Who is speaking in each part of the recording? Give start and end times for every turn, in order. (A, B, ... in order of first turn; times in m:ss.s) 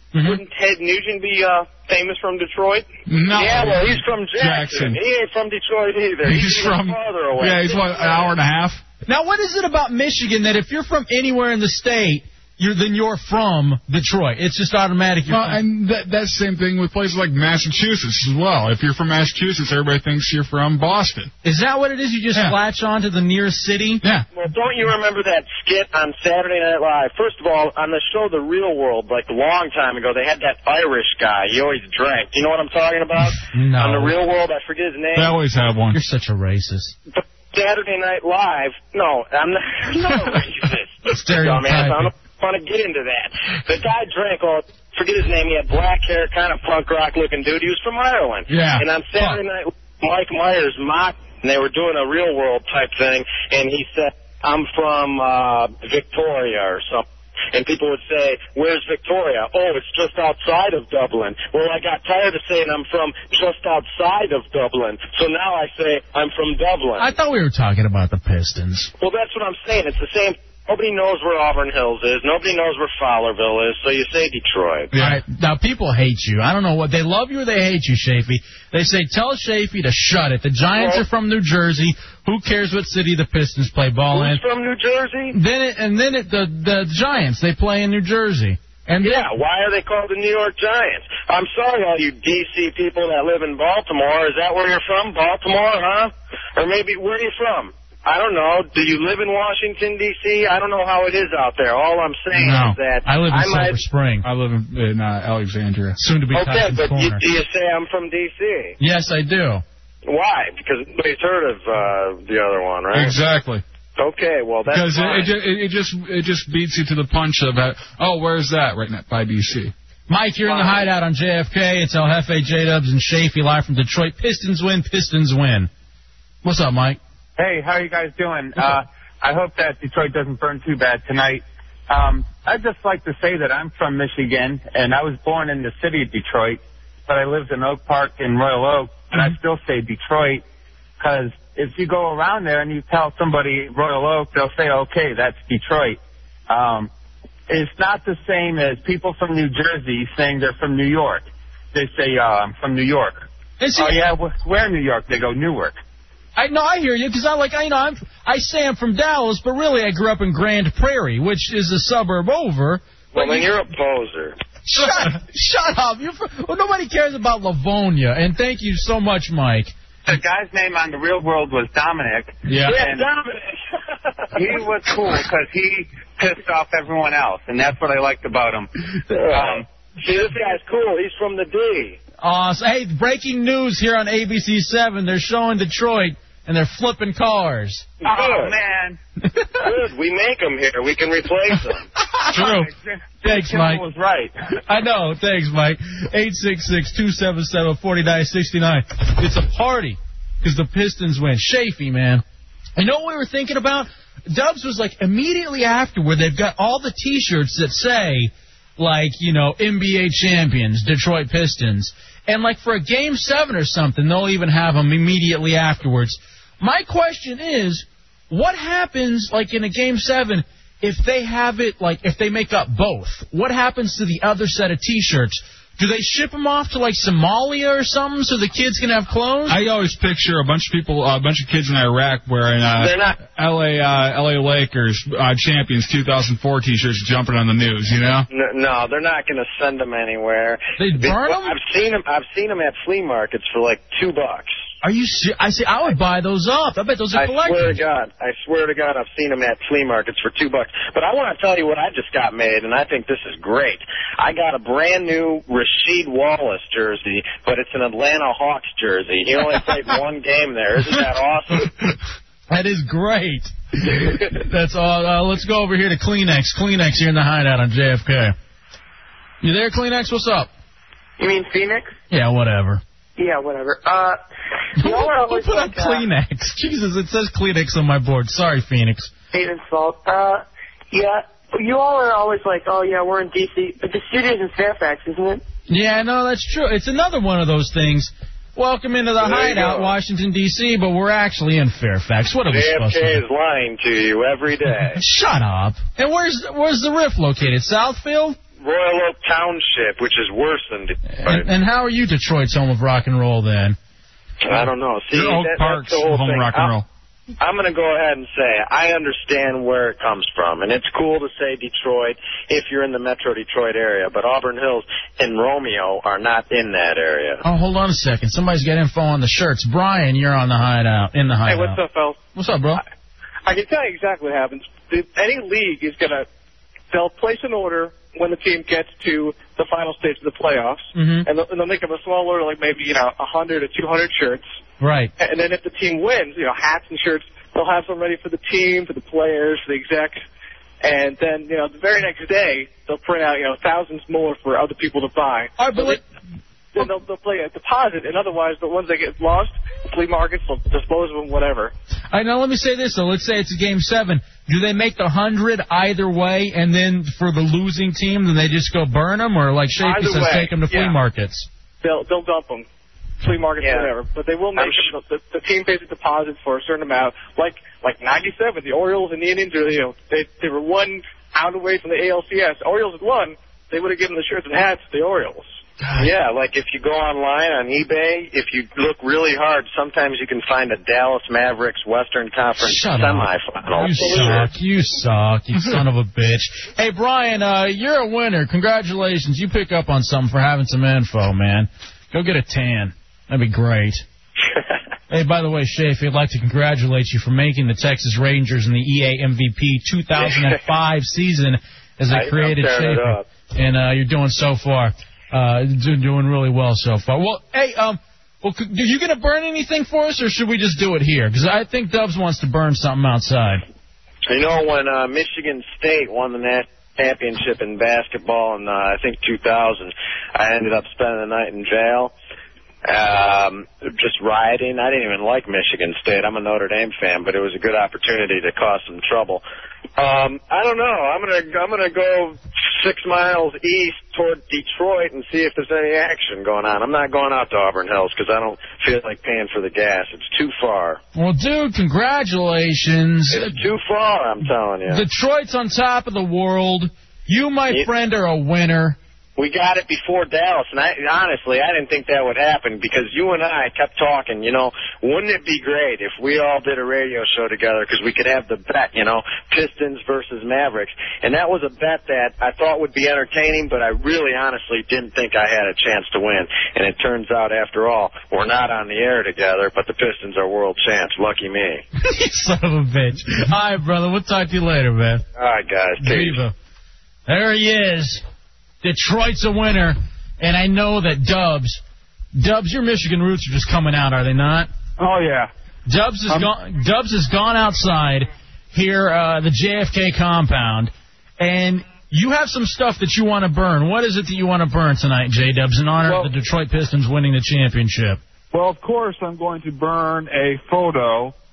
0:00.1-0:00.4 A
0:03.1-0:05.0 B
0:03.3-0:08.3 C
0:06.2-0:08.8 B
0:09.0-0:15.6 A
0:15.3-0:21.3 B
0:21.4-0:24.0 A
0:24.0-0:24.3 B
0:24.3-0:35.3 C
0:33.5-0:34.1 A
0:35.1-0:36.0 B
0:35.9-0:36.9 A
0:37.1-1:07.1 C
0:41.2-0:42.1 A
0:48.5-0:49.4 B
1:07.0-1:08.9 A
1:09.0-1:14.9 C
1:14.9-1:15.2 B
1:14.9-1:24.4 A
1:20.7-1:21.0 C
1:24.1-1:25.4 C
1:25.3-1:29.2 A
1:29.0-1:43.8 C
1:42.3-1:42.8 B
1:43.0-1:44.2 A
1:44.2-1:46.0 B
1:46.0-1:47.2 A
1:46.3-1:48.8 C
1:48.8-1:49.6 A
1:50.0-1:53.2 C
1:52.9-1:53.6 B
1:54.0-1:55.3 C
1:54.7-1:59.7 B
2:00.1-2:05.7 A
2:00.4-2:00.8 C
2:06.4-2:07.0 A
2:07.4-2:20.4 D
2:21.0-2:26.9 D
2:27.5-2:35.8 D
2:33.6-2:34.0 A
2:36.4-2:43.5 A
2:43.1-2:44.4 C
2:44.6-2:49.7 A
2:44.8-2:45.1 B
2:50.1-2:53.0 D
2:52.4-2:52.8 B
2:52.6-2:53.5 C
2:54.3-2:58.7 D
2:59.1-3:02.0 C
2:59.3-2:59.6 D
3:02.2-3:07.9 A
3:08.0-3:08.6 C
3:08.0-3:09.0 D
3:09.6-3:11.9 C
3:12.3-3:12.6 A
3:12.3-3:12.7 B
3:12.4-3:14.3 D
3:13.2-3:13.8 A
3:14.7-3:22.2 A
3:22.8-3:49.6 A
3:49.5-3:58.3 B
3:52.8-3:53.2 C
3:58.3-4:04.5 C
4:00.8-4:01.6 A
4:04.8-4:07.8 A
4:07.1-4:21.7 C
4:22.5-4:28.3 A
4:29.4-4:30.5 A
4:31.2-4:31.9 E
4:32.1-4:32.8 A
4:33.2-4:34.2 E
4:34.8-4:39.1 A
4:34.8-4:36.1 E
4:39.3-4:45.4 E
4:45.7-4:53.2 A
4:49.2-4:49.9 C
4:52.5-4:55.0 C
4:54.9-4:58.4 A
4:58.6-5:01.5 C
5:01.2-5:03.8 A
5:04.4-5:06.7 C
5:04.5-5:06.8 B
5:07.4-5:17.4 C
5:17.4-5:21.8 A
5:21.4-5:22.2 F
5:22.3-5:22.8 A
5:23.4-5:26.3 F
5:26.9-5:34.5 F
5:30.9-5:31.2 A
5:34.8-5:35.1 A
5:35.2-5:40.2 F
5:40.8-5:46.0 F
5:45.6-5:46.0 A
5:46.8-5:51.7 F
5:52.1-6:01.5 A
5:59.8-6:00.9 F
6:01.8-6:02.6 F
6:03.2-6:15.5 F
6:03.6-6:03.9 C
6:04.6-6:04.9 C
6:15.8-6:16.1 A
6:16.0-6:24.5 C
6:22.6-6:34.0 A
6:35.1-6:53.6 A
6:40.2-6:40.5 C
6:42.1-6:43.2 C
6:54.3-7:02.1 C
7:02.8-7:09.4 C
7:10.0-7:21.0 C
7:21.2-7:23.6 A
7:23.3-7:25.0 C
7:24.9-7:29.0 A
7:29.4-7:51.8 C
7:52.0-7:55.2 A
7:55.4-7:56.4 C
7:56.0-7:56.5 A
7:57.3-7:58.2 A
7:58.8-8:01.8 A
8:02.3-8:04.7 A
8:05.0-8:05.5 G
8:05.8-8:18.2 A
8:16.0-8:16.3 G
8:18.5-8:21.3 G